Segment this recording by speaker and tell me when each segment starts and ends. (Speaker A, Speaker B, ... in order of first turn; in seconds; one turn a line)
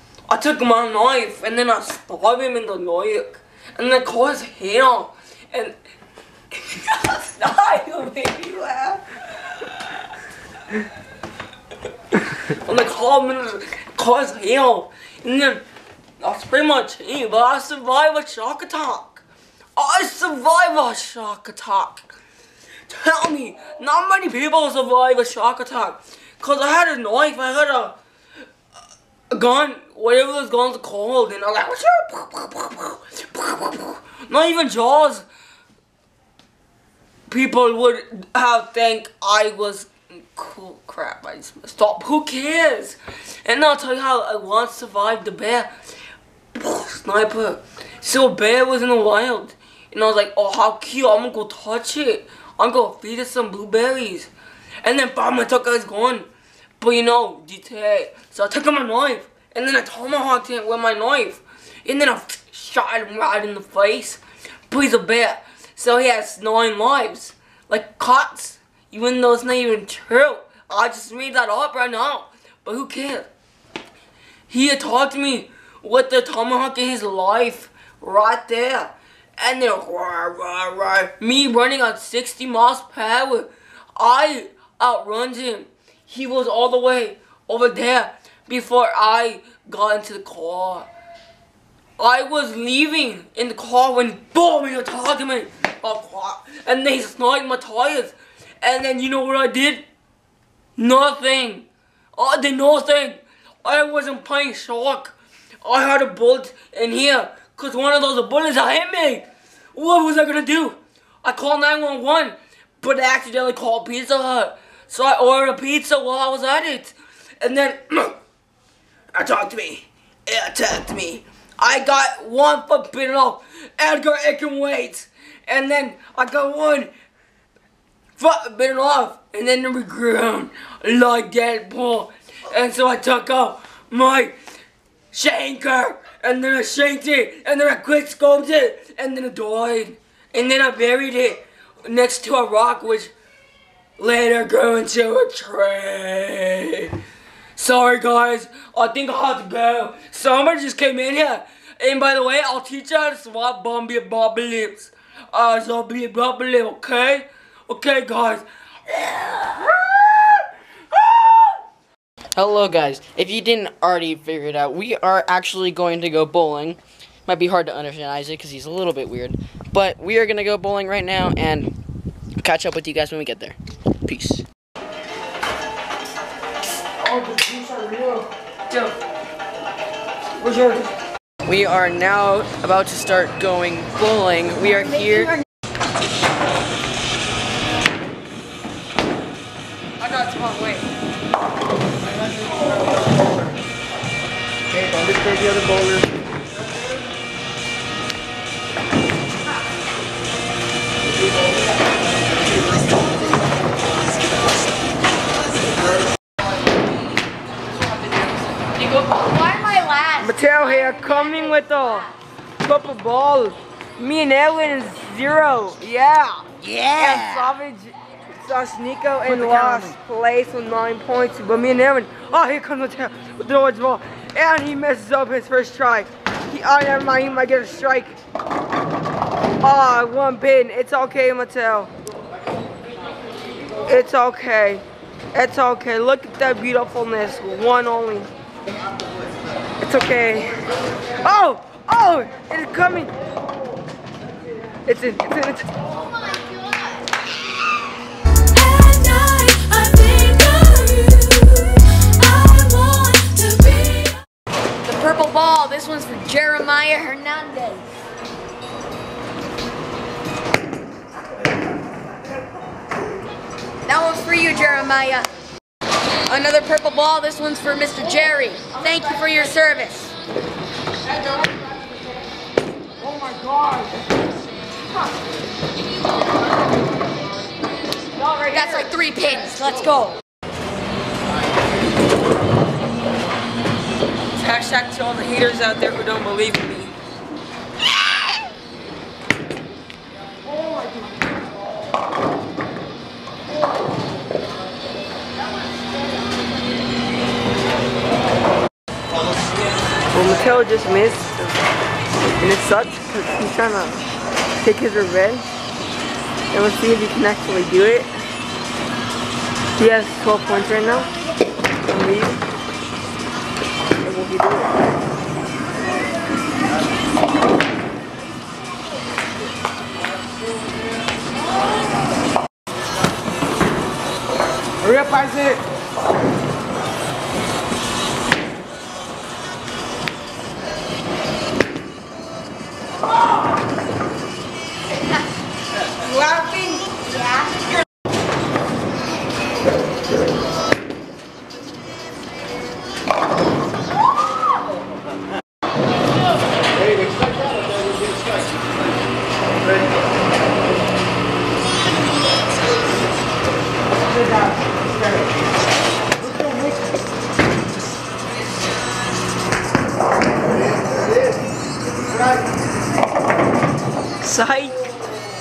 Speaker A: 0.3-5.8
Speaker A: 6.5-10.1
Speaker A: 12.1-15.6
Speaker A: 16.2-19.2
Speaker A: 19.8-22.1
Speaker A: 22.9-27.9
Speaker A: 29.3-35.2
Speaker A: 37.3-45.7
Speaker A: 46.5-54.3
Speaker A: 54.8-56.3
Speaker A: 56.8-73.3
Speaker A: 74.5-90.9
Speaker A: 92.0-99.8
Speaker A: 100.8-118.2
Speaker A: 119.1-126.9
Speaker A: 128.2-134.4
Speaker A: 135.1-143.1
Speaker A: 144.0-146.9
Speaker A: 147.6-161.5
Speaker B: 162.4-171.7
Speaker B: 172.4-174.4
Speaker A: 177.0-178.9
Speaker A: 180.3-180.9
Speaker B: 181.4-185.4
Speaker A: 190.0-190.9
Speaker C: 192.5-193.1
Speaker C: 194.8-196.0
Speaker D: 208.9-211.3
Speaker A: 210.2-228.2
Speaker B: 216.6-217.4
Speaker B: 219.2-219.9
Speaker A: 229.6-231.9
Speaker A: 233.8-238.3
Speaker A: 239.8-240.6
Speaker A: 241.2-243.1
Speaker A: 244.9-245.7
Speaker D: 245.9-247.1
Speaker D: 248.6-254.2
Speaker D: 254.8-257.9
Speaker D: 263.9-265.3
Speaker D: 266.3-270.1
Speaker A: 273.0-273.9
Speaker A: 278.1-278.9
Speaker D: 278.5-280.2
Speaker A: 284.4-286.9
Speaker A: 300.1-301.6
Speaker A: 302.4-304.0
Speaker A: 304.6-305.5
Speaker A: 306.5-308.1
Speaker A: 309.8-311.1
Speaker A: 311.9-312.4
Speaker A: 314.0-314.8
Speaker B: 324.8-325.6
Speaker A: 336.0-336.9
Speaker D: 336.9-337.7
Speaker C: 346.9-348.4
Speaker A: 364.2-364.8